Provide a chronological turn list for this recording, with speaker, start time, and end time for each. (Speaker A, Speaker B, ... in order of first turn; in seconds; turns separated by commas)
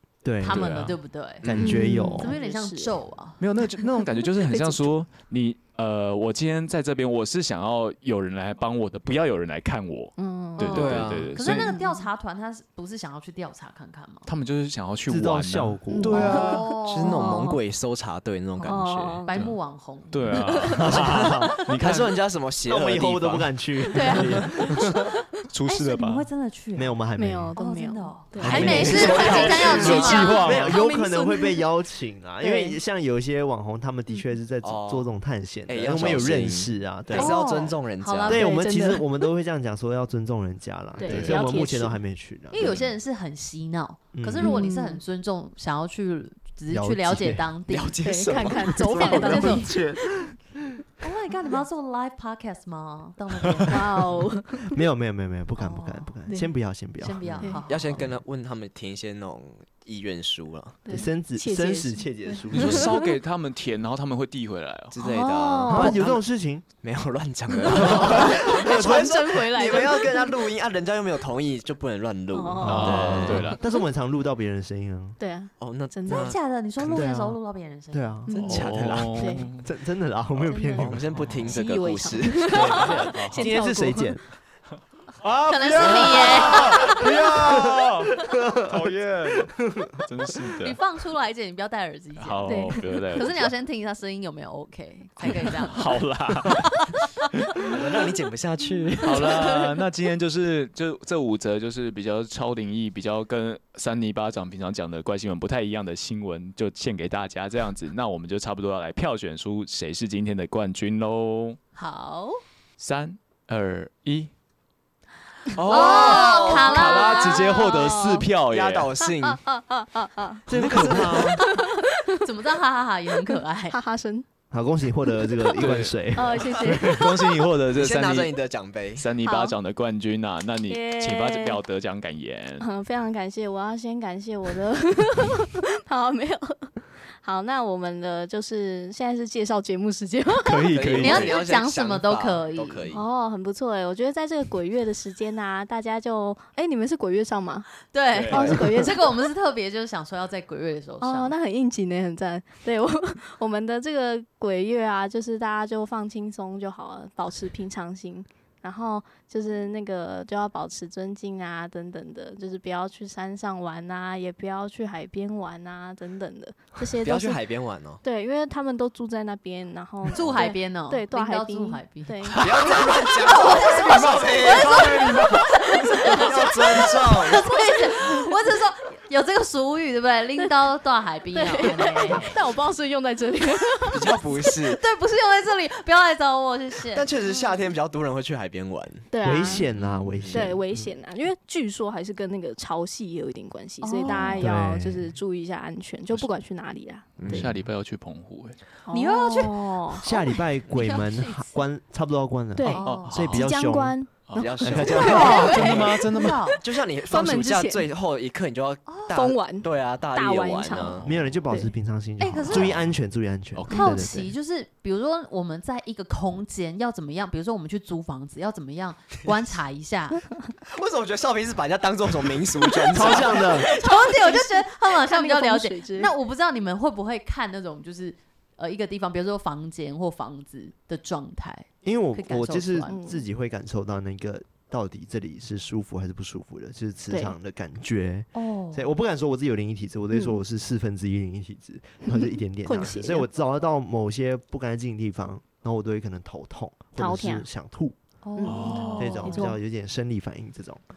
Speaker A: 0.2-0.8, Speaker B: 0.4-3.4, Speaker C: 0.4-1.0, Speaker D: 1.4-1.8, Speaker A: 1.4-2.4, Speaker E: 1.6-3.0, Speaker C: 3.4-11.7, Speaker E: 10.2-12.1, Speaker B: 10.6-14.3, Speaker D: 10.7-11.3, Speaker C: 14.3-16.7, Speaker A: 15.1-16.5, Speaker E: 15.9-17.5, Speaker B: 16.1-17.6, Speaker D: 16.3-19.2, Speaker E: 18.6-19.3, Speaker B: 19.3-20.9, Speaker C: 19.3-19.6, Speaker C: 20.1-22.1, Speaker A: 20.8-21.6, Speaker D: 21.0-23.6, Speaker A: 22.6-25.0, Speaker E: 23.9-24.9, Speaker C: 25.5-26.3, Speaker B: 25.7-27.0, Speaker A: 26.8-27.6, Speaker E: 27.2-31.6, Speaker B: 27.6-30.5, Speaker D: 28.4-30.6, Speaker A: 28.4-37.4, Speaker C: 29.2-30.8, Speaker E: 32.4-32.8, Speaker D: 34.6-35.1, Speaker D: 35.7-38.5, Speaker B: 37.1-38.5, Speaker A: 38.3-42.9, Speaker E: 38.3-39.3, Speaker E: 41.0-42.0, Speaker D: 41.0-41.6, Speaker B: 42.5-49.7, Speaker A: 44.1-44.6, Speaker E: 44.4-45.0, Speaker A: 46.7-47.6, Speaker D: 47.7-50.0, Speaker E: 48.0-49.8, Speaker A: 49.1-50.5, Speaker B: 51.0-54.1, Speaker E: 53.7-54.8, Speaker A: 54.7-57.5, Speaker B: 55.6-56.2, Speaker B: 57.0-58.0, Speaker D: 57.7-60.9, Speaker E: 60.9-63.0, Speaker A: 60.9-63.0, Speaker C: 62.5-65.0, Speaker D: 64.9-66.2, Speaker E: 65.0-66.0, Speaker A: 65.7-66.7, Speaker D: 66.8-73.5, Speaker E: 67.6-70.4, Speaker A: 67.8-68.9, Speaker E: 72.3-73.9, Speaker A: 72.6-75.2, Speaker C: 72.7-73.6, Speaker E: 75.2-76.4, Speaker D: 75.6-77.0, Speaker B: 76.1-78.1, Speaker A: 76.9-77.4, Speaker A: 77.9-81.0, Speaker E: 78.3-79.5, Speaker D: 78.3-79.3, Speaker C: 78.4-79.7, Speaker D: 80.8-83.0, Speaker C: 81.2-81.5, Speaker E: 81.5-84.2, Speaker A: 82.5-84.2, Speaker C: 82.6-83.6, Speaker C: 85.2-90.8, Speaker B: 85.5-87.0, Speaker E: 86.5-87.0, Speaker A: 87.3-90.6, Speaker B: 90.6-97.0, Speaker C: 92.2-93.5, Speaker E: 92.5-92.8, Speaker C: 95.2-96.8, Speaker D: 97.7-99.4, Speaker C: 99.0-111.6, Speaker E: 99.3-99.7, Speaker B: 111.8-112.4, Speaker C: 112.8-114.3, Speaker C: 115.5-118.9, Speaker B: 115.6-117.4, Speaker D: 115.7-116.7, Speaker E: 115.8-118.3, Speaker D: 118.5-119.4, Speaker E: 119.2-122.2, Speaker A: 120.5-121.5, Speaker D: 120.5-121.5, Speaker B: 122.2-123.8, Speaker E: 123.7-124.3, Speaker A: 124.5-127.0, Speaker E: 125.2-127.4, Speaker C: 125.6-128.3, Speaker D: 127.7-129.1, Speaker C: 129.0-132.7, Speaker E: 129.2-129.5, Speaker E: 130.7-131.6, Speaker E: 132.6-140.7, Speaker C: 140.4-141.4, Speaker D: 140.7-143.1, Speaker B: 140.9-142.9, Speaker E: 142.9-147.7, Speaker B: 147.9-151.3, Speaker C: 148.2-148.5, Speaker E: 148.3-149.0, Speaker D: 148.4-148.6, Speaker E: 151.0-167.4, Speaker D: 167.0-168.0, Speaker E: 168.0-178.2, Speaker B: 170.1-172.4, Speaker C: 172.2-172.9, Speaker D: 172.4-175.5, Speaker B: 173.2-182.4, Speaker C: 173.9-175.5, Speaker D: 176.0-177.5, Speaker E: 181.3-184.2, Speaker D: 183.9-184.8, Speaker B: 184.5-187.1, Speaker D: 186.9-189.5, Speaker E: 189.1-189.7, Speaker A: 189.2-190.9, Speaker C: 189.8-190.1, Speaker D: 190.2-190.4, Speaker E: 190.3-197.4, Speaker B: 193.8-194.4, Speaker A: 194.1-195.2, Speaker D: 197.2-197.5, Speaker C: 197.2-198.6, Speaker E: 198.9-200.1, Speaker B: 198.9-201.4, Speaker A: 200.0-204.0, Speaker E: 202.6-205.8, Speaker B: 202.6-203.2, Speaker C: 202.8-203.5, Speaker C: 204.3-206.6, Speaker D: 204.3-206.1, Speaker A: 204.6-205.3, Speaker B: 205.0-206.6, Speaker E: 206.5-207.8, Speaker D: 206.6-211.1, Speaker E: 209.1-211.8, Speaker C: 210.7-211.3, Speaker A: 211.0-214.3, Speaker B: 212.2-212.7, Speaker C: 212.5-212.9, Speaker C: 213.5-214.1, Speaker B: 213.7-220.3, Speaker D: 220.7-223.6, Speaker B: 222.8-233.0, Speaker A: 222.9-223.7, Speaker E: 223.5-226.1, Speaker A: 231.8-248.0, Speaker E: 232.9-233.2, Speaker E: 237.1-237.3, Speaker B: 238.3-238.9, Speaker E: 240.1-240.4, Speaker E: 242.1-243.3, Speaker E: 247.0-247.5, Speaker B: 248.2-249.5, Speaker E: 248.4-249.6, Speaker C: 248.4-249.2, Speaker A: 248.9-250.8